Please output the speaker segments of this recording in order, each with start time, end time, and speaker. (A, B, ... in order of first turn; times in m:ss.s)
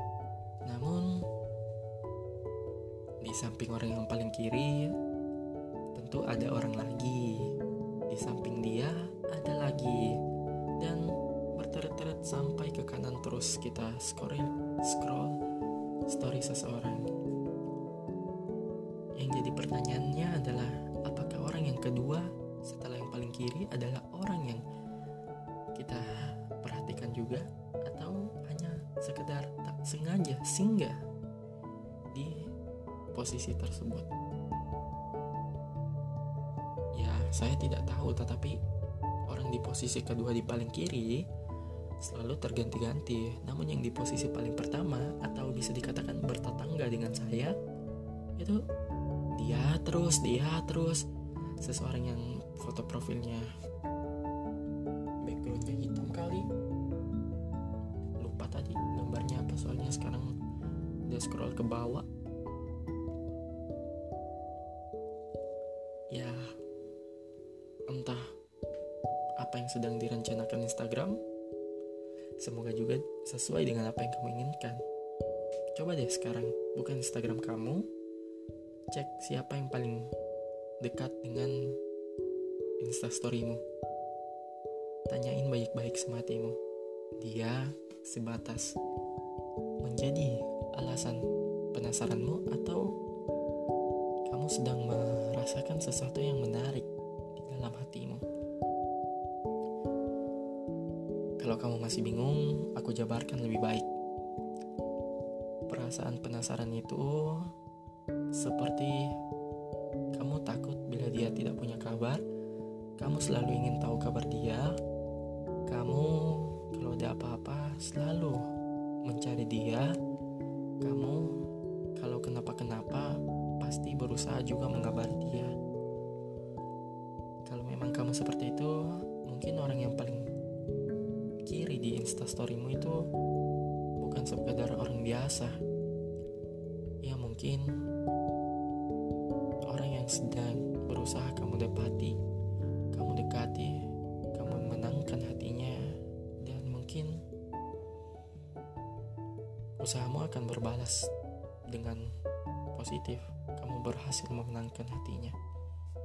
0:00.7-0:01.3 A
0:03.2-0:05.0 A
0:05.9-0:07.5 A
0:08.1-0:10.2 A
0:10.8-0:15.4 A
0:16.1-0:17.1 A
0:19.2-0:24.6 A
0:25.8-0:31.0 A
0:32.1-0:32.5 A
0:33.1-0:34.1 A
0:36.9-0:38.6 A
0:39.3-0:41.2 A
0:42.0-0:47.6 A
0:49.4-0:51.1 A
0:51.6-0:53.5 A
0:55.2-0:56.5 A
0:58.2-1:00.3 A
1:01.1-1:02.1 A
1:06.1-1:06.6 A
1:07.9-1:08.3 A
1:09.4-1:11.2 A
1:12.4-1:14.8 A
1:15.8-1:17.9 A
1:18.9-1:20.1 A
1:20.8-1:21.8 A
1:22.8-1:23.6 A
1:25.1-1:26.6 A
1:27.2-1:28.8 A
1:29.8-1:32.9 A
1:34.3-1:38.2 A
1:41.4-1:43.9 A
1:45.7-1:47.5 A
1:48.4-1:49.1 A
1:50.1-1:52.2 A
1:53.0-1:54.7 A
1:55.7-1:58.4 A
1:59.1-1:59.9 A
2:00.8-2:01.4 A
2:02.0-2:05.6 A
2:07.5-2:10.3 A
2:11.5-2:13.0 A
2:14.0-2:15.6 A
2:17.0-2:17.8 A
2:19.7-2:22.2 A
2:22.9-2:27.2 A
2:29.8-2:31.1 A
2:31.7-2:32.1 A
2:32.7-2:35.4 A